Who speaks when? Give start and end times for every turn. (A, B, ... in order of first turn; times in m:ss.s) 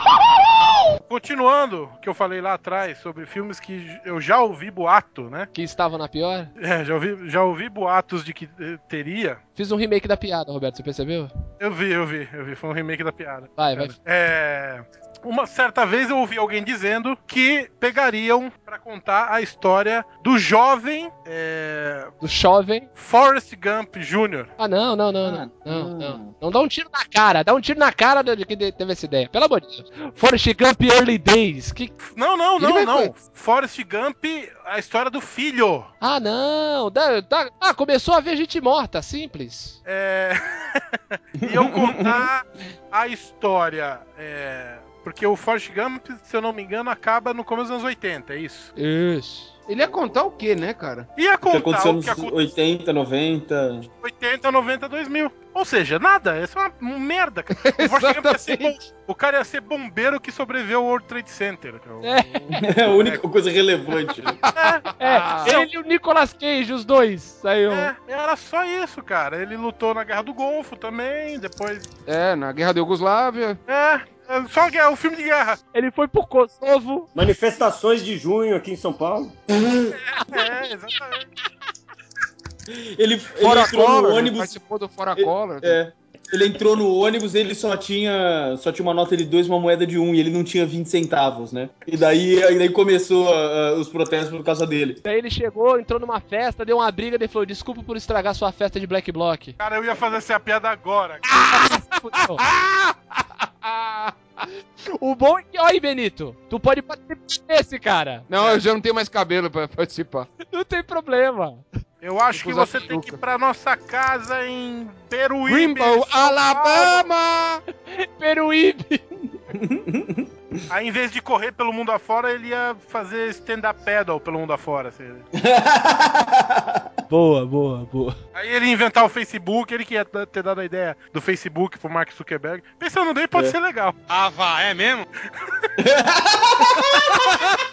0:01.1-0:05.5 A
0:05.5-0:06.5 B
0:06.6-0:09.4 A
0:09.6-0:11.3 B
0:11.6-0:22.1 A
0:13.6-0:14.0 B
0:22.2-0:22.9 B
0:23.0-0:24.5 A
0:24.6-0:31.9 B
0:25.2-0:26.3 C
0:32.0-0:35.9 A
0:32.6-0:33.1 B
0:36.0-0:39.8 B
0:39.9-0:48.7 A
0:41.5-0:42.2 C
0:48.8-0:49.6 B
0:49.7-0:51.1 D
0:51.2-0:52.4 A
0:51.5-0:53.9 C
0:54.0-1:02.2 A
0:57.6-0:58.8 D
1:02.0-1:02.6 B
1:02.6-1:04.4 C
1:02.9-1:03.2 A
1:04.4-1:05.6 D
1:04.5-1:04.9 A
1:05.0-1:07.9 B
1:05.4-1:05.7 A
1:07.7-1:11.9 A
1:12.1-1:13.6 D
1:13.7-1:15.6 A
1:15.7-1:17.1 B
1:17.2-1:19.4 E
1:19.5-1:19.9 C
1:20.2-1:20.5 B
1:20.3-1:21.3 A
1:22.7-1:24.6 C
1:23.4-1:25.8 D
1:25.2-1:35.0 C
1:35.0-1:39.6 B
1:39.6-1:41.4 A
1:41.3-1:44.2 D
1:41.5-1:42.4 B
1:44.9-1:48.3 B
1:48.3-1:50.3 D
1:48.4-1:48.6 A
1:50.5-1:51.6 B
1:52.0-1:57.1 A
1:52.3-1:53.2 D
1:55.5-1:57.6 D
1:57.9-1:59.0 B
1:59.5-2:00.6 C
2:00.7-2:05.3 A
2:05.4-2:06.8 C
2:07.1-2:08.2 B
2:08.4-2:15.1 A
2:15.8-2:17.3 C